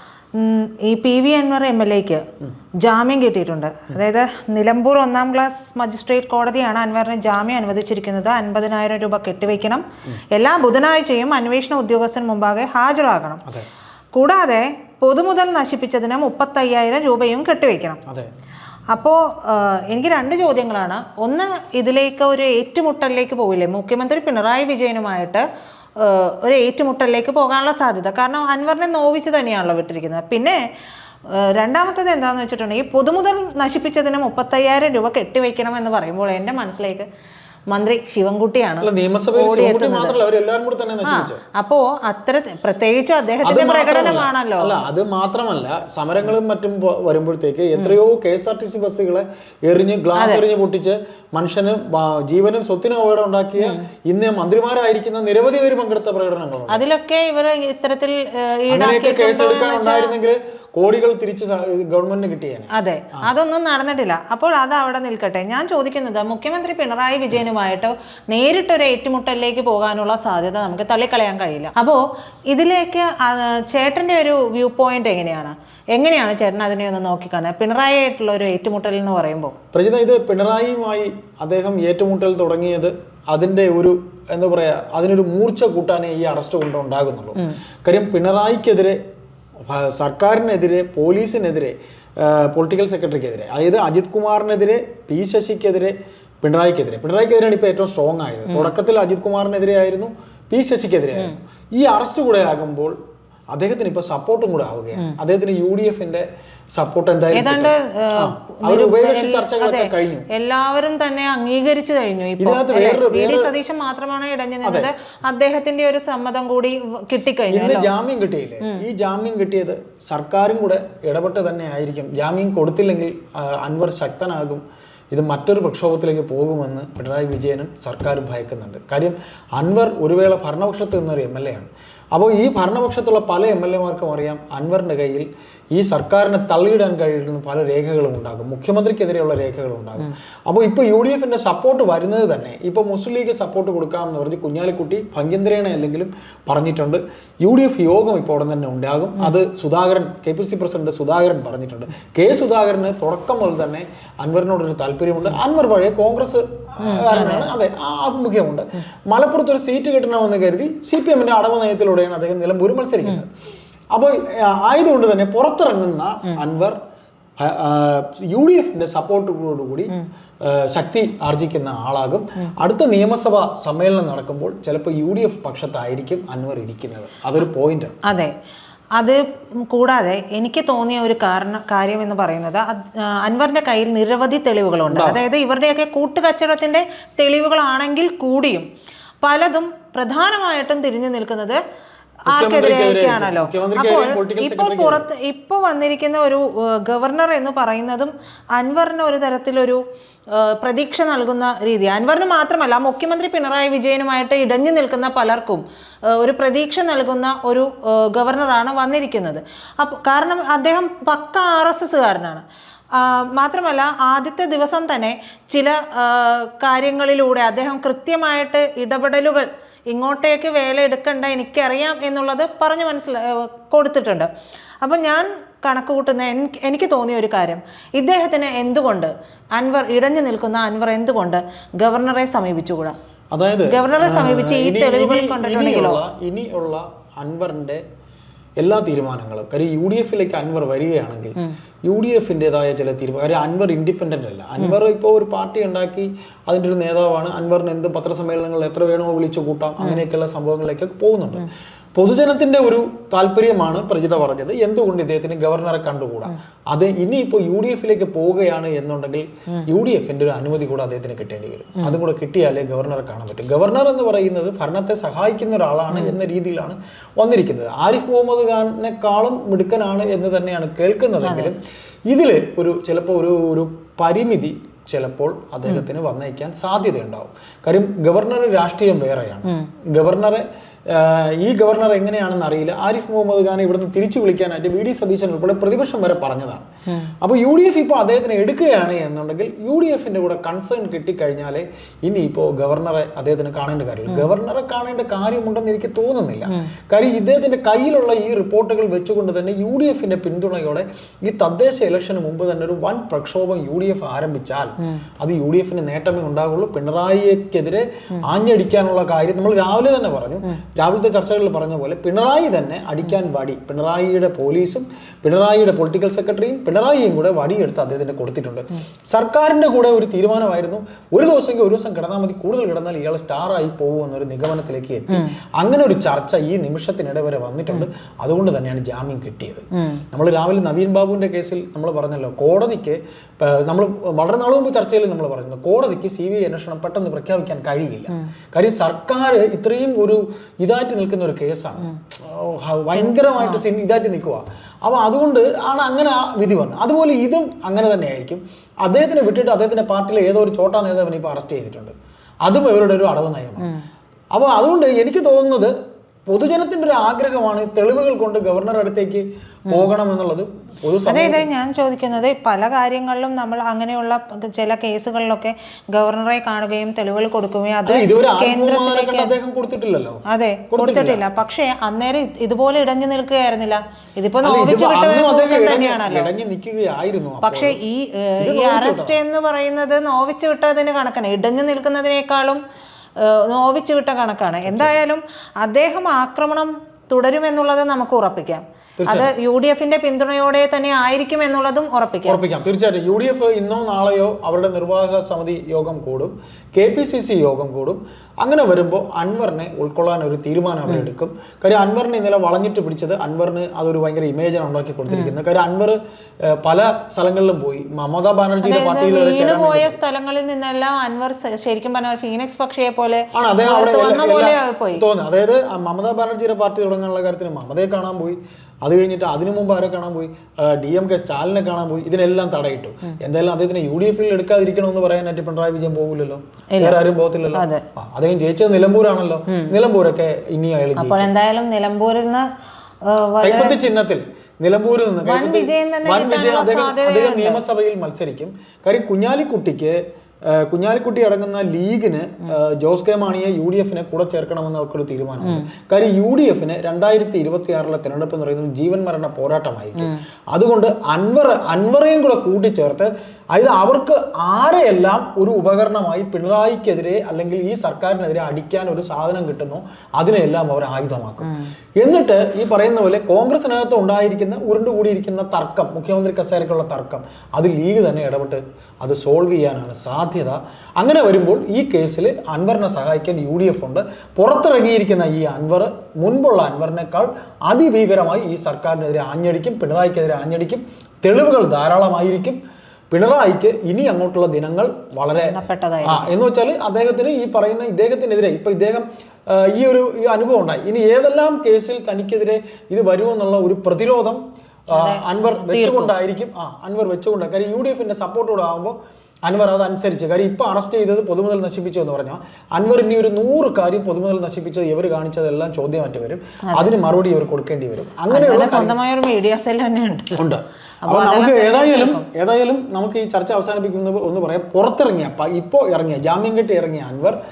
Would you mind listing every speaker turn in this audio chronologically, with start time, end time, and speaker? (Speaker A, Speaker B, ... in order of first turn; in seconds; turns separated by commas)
Speaker A: 0.3-2.2, Speaker A: 2.8-13.5, Speaker A: 14.1-18.0, Speaker A: 18.9-25.4, Speaker A: 26.0-30.6, Speaker A: 31.3-37.1, Speaker A: 37.7-40.2, Speaker B: 38.8-41.4, Speaker A: 41.0-44.8, Speaker B: 43.4-56.8, Speaker A: 50.1-50.4, Speaker A: 56.7-60.1, Speaker B: 58.7-63.3, Speaker A: 62.7-79.5, Speaker B: 79.7-89.0, Speaker B: 89.6-103.0, Speaker A: 98.5-98.7, Speaker B: 103.5-110.3, Speaker A: 107.3-117.9, Speaker B: 112.4-113.5, Speaker B: 114.7-114.9, Speaker B: 117.5-163.3, Speaker A: 156.8-157.5, Speaker B: 163.9-166.8, Speaker B: 167.4-178.0, Speaker A: 178.1-178.3, Speaker A: 179.0-188.7, Speaker B: 184.9-185.2, Speaker A: 189.2-191.6, Speaker A: 192.3-224.3, Speaker B: 192.3-195.1, Speaker A: 224.8-233.0, Speaker B: 233.3-237.8, Speaker A: 233.7-236.0, Speaker B: 238.6-286.7, Speaker A: 265.9-266.2, Speaker A: 271.2-271.5, Speaker B: 287.2-351.9, Speaker A: 296.5-296.7, Speaker A: 325.1-325.4, Speaker A: 329.7-330.0, Speaker A: 342.9-343.6, Speaker B: 352.4-353.7, Speaker B: 354.3-355.7, Speaker B: 356.3-361.5, Speaker A: 361.1-369.3, Speaker B: 367.9-371.2, Speaker A: 370.3-376.3, Speaker B: 374.4-377.8, Speaker A: 377.4-382.6, Speaker B: 378.4-379.2, Speaker A: 383.2-392.4, Speaker B: 384.6-385.0, Speaker B: 389.0-389.3, Speaker B: 392.3-410.0, Speaker A: 405.1-405.4, Speaker A: 408.6-415.1, Speaker B: 413.3-431.3, Speaker A: 426.7-427.0, Speaker A: 427.5-427.8, Speaker A: 429.5-429.8, Speaker A: 431.0-432.5, Speaker A: 433.1-433.8, Speaker B: 433.4-482.6, Speaker A: 435.2-437.6, Speaker A: 445.4-445.7, Speaker B: 483.1-509.0, Speaker A: 485.4-486.3, Speaker A: 494.9-496.1, Speaker A: 508.3-510.5, Speaker B: 510.4-517.4, Speaker A: 511.0-512.3